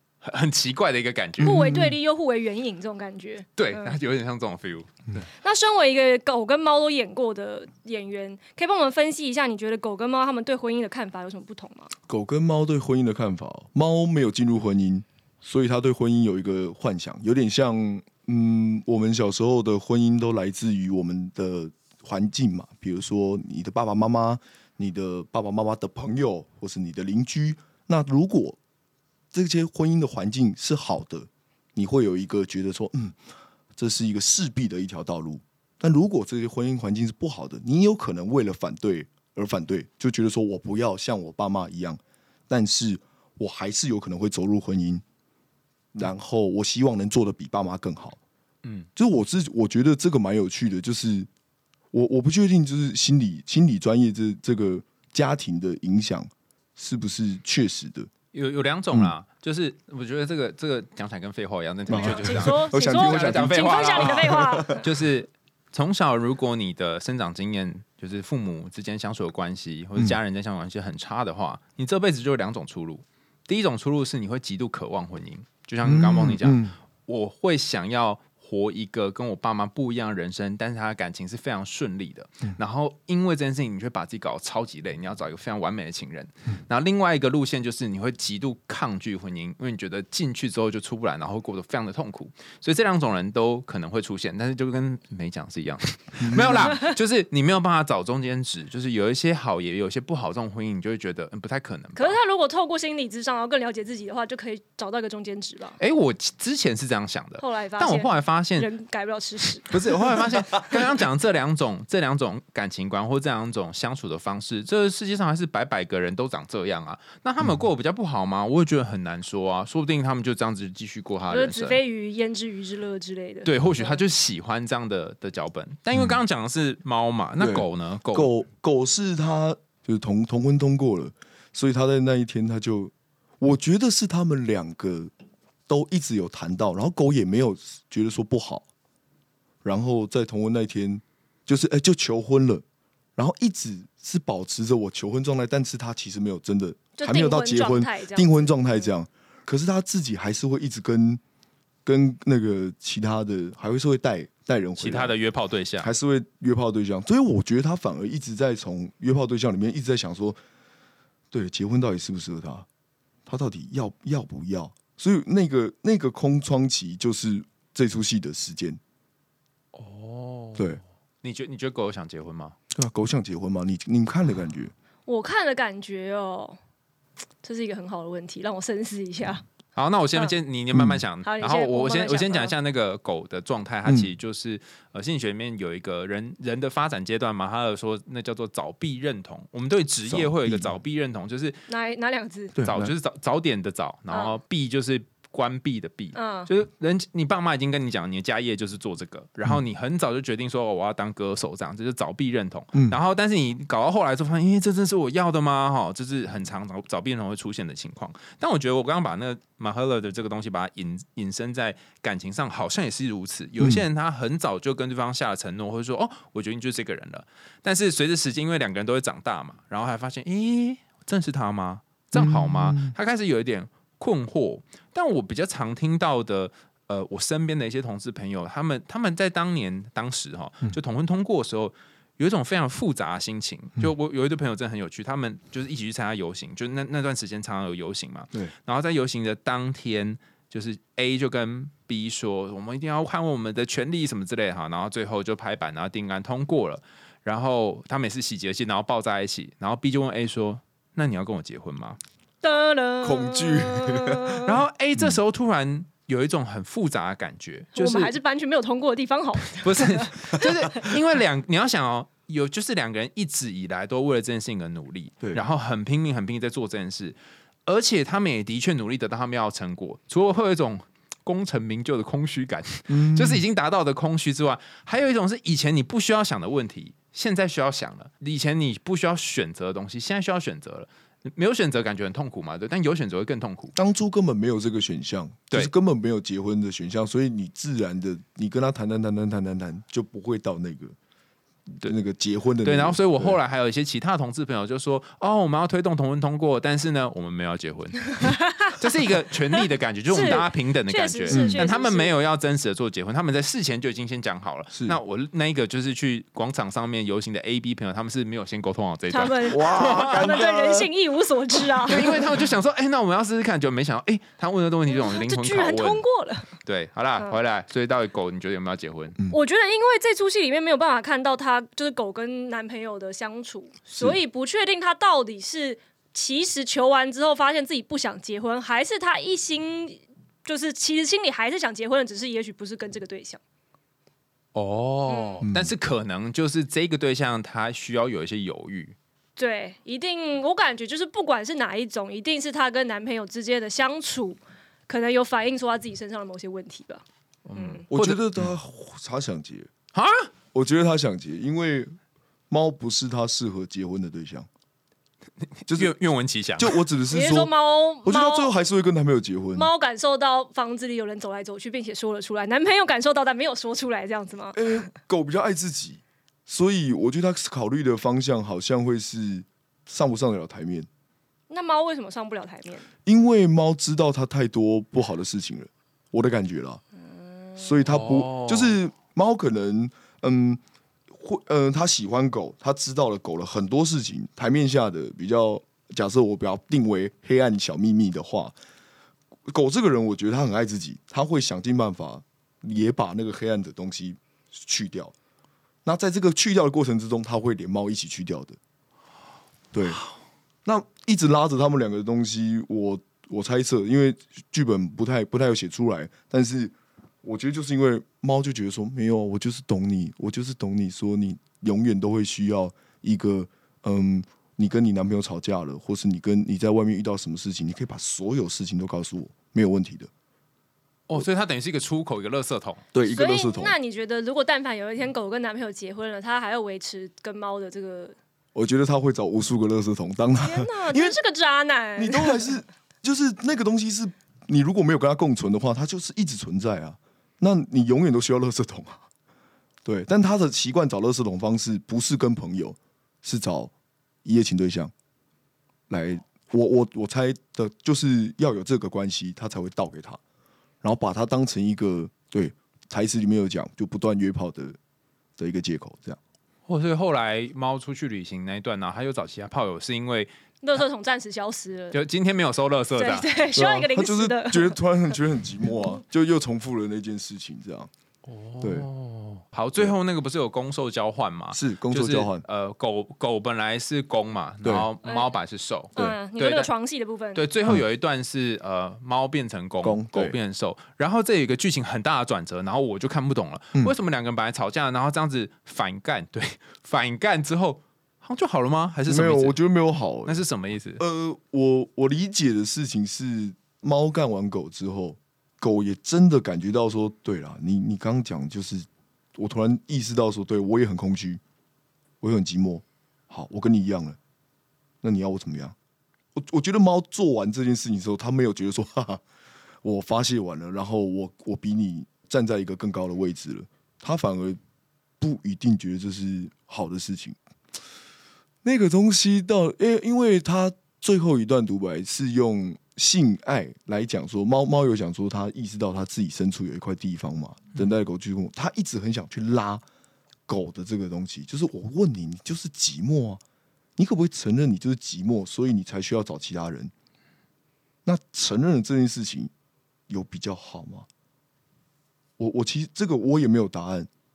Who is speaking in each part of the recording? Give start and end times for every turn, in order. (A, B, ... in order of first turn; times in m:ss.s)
0:00.2-0:01.7 A
0:01.4-0:02.0 B
0:01.4-0:04.0 C
0:03.6-0:05.2 A
0:05.4-0:11.9 C
0:12.1-0:28.6 B
0:29.3-0:33.2 B
0:33.8-0:45.0 B
0:45.9-0:48.2 B
0:49.0-0:51.3 B
0:51.9-0:58.1 B
0:58.3-1:42.2 A
1:01.9-1:04.9 B
1:01.9-1:04.8 C
1:15.8-1:16.8 B
1:36.2-1:36.9 B
1:42.0-1:45.8 C
1:45.8-1:48.7 A
1:47.4-1:49.7 C
1:49.6-2:01.8 A
2:01.3-2:04.0 C
2:03.4-2:08.3 A
2:07.4-2:15.1 B
2:15.7-2:18.6 B
2:19.6-2:22.6 B
2:23.2-2:31.2 B
2:27.0-2:28.9 C
2:31.8-2:35.1 B
2:34.8-2:35.9 A
2:35.8-2:40.4 B
2:41.3-2:42.7 B
2:43.3-2:48.8 B
2:49.7-2:52.6 A
2:50.6-2:50.8 B
2:52.7-2:54.7 B
2:55.1-2:56.6 C
2:57.4-2:59.4 C
2:59.8-3:11.6 A
3:00.7-3:01.0 B
3:01.2-3:02.5 C
3:03.9-3:04.1 B
3:10.1-3:10.8 B
3:11.7-3:12.6 C
3:12.6-3:12.9 B
3:12.6-4:12.0 A
3:14.1-3:14.4 C
3:16.1-3:16.5 C
3:33.6-3:33.8 B
3:42.1-3:42.9 B
4:12.4-4:14.6 C
4:13.0-4:14.4 B
4:14.4-4:18.1 A
4:17.8-4:20.9 C
4:19.6-4:43.8 A
4:32.9-4:33.4 B
4:43.8-4:51.0 B
4:51.8-4:53.4 B
4:52.6-5:10.4 A
4:58.2-4:58.8 C
4:59.6-5:02.1 C
5:01.3-5:01.7 B
5:04.7-5:05.0 B
5:09.1-5:12.2 C
5:09.5-5:10.9 B
5:11.9-5:19.2 A
5:11.9-5:12.4 B
5:14.9-5:16.5 C
5:19.3-5:33.4 C
5:34.6-5:39.0 A
5:35.1-5:35.4 C
5:35.4-5:35.8 B
5:39.4-5:47.0 C
5:47.5-5:48.5 A
5:47.6-5:47.9 C
5:47.9-5:49.7 B
5:49.9-5:50.3 A
5:50.5-5:51.9 B
5:52.5-5:54.5 B
5:55.6-5:56.8 A
5:55.7-5:55.9 B
5:56.6-5:57.5 B
5:57.1-5:58.5 C
5:58.0-5:59.7 B
5:59.6-6:04.9 C
6:04.5-6:10.9 B
6:11.5-6:12.9 C
6:13.0-6:16.8 B
6:17.4-6:17.7 C
6:17.6-6:28.6 B
6:17.9-6:18.8 A
6:29.5-6:35.1 B
6:35.8-6:38.6 B
6:39.7-6:40.0 B
6:40.6-7:00.1 B
7:01.1-7:02.8 A
7:02.9-7:03.7 B
7:03.1-7:08.2 C
7:08.6-7:11.2 B
7:10.4-7:12.5 C
7:12.0-7:19.0 B
7:19.8-7:23.7 B
7:24.2-7:24.9 B
7:25.9-7:30.2 B
7:30.8-7:34.8 B
7:35.4-7:36.2 B
7:36.7-7:40.8 A
7:40.6-7:42.0 C
7:41.9-7:43.3 A
7:43.0-7:44.8 C
7:43.6-7:47.9 B
7:48.3-7:56.7 A
7:48.6-7:48.9 B
7:51.5-7:52.4 B
7:54.6-7:54.9 B
7:55.0-7:55.3 C
7:56.0-7:57.4 C
7:57.4-8:09.6 A
7:59.8-8:00.4 B
8:09.1-8:10.4 B
8:10.3-8:11.0 A
8:11.0-8:21.4 B
8:22.2-8:24.2 B
8:25.0-8:25.7 B
8:26.4-8:29.2 B
8:29.8-8:34.6 B
8:35.2-8:37.4 B
8:38.6-8:49.8 B
8:50.5-8:53.4 B
8:54.0-8:56.9 B
8:58.0-8:59.5 B
9:00.1-9:01.1 B
9:02.4-9:04.1 B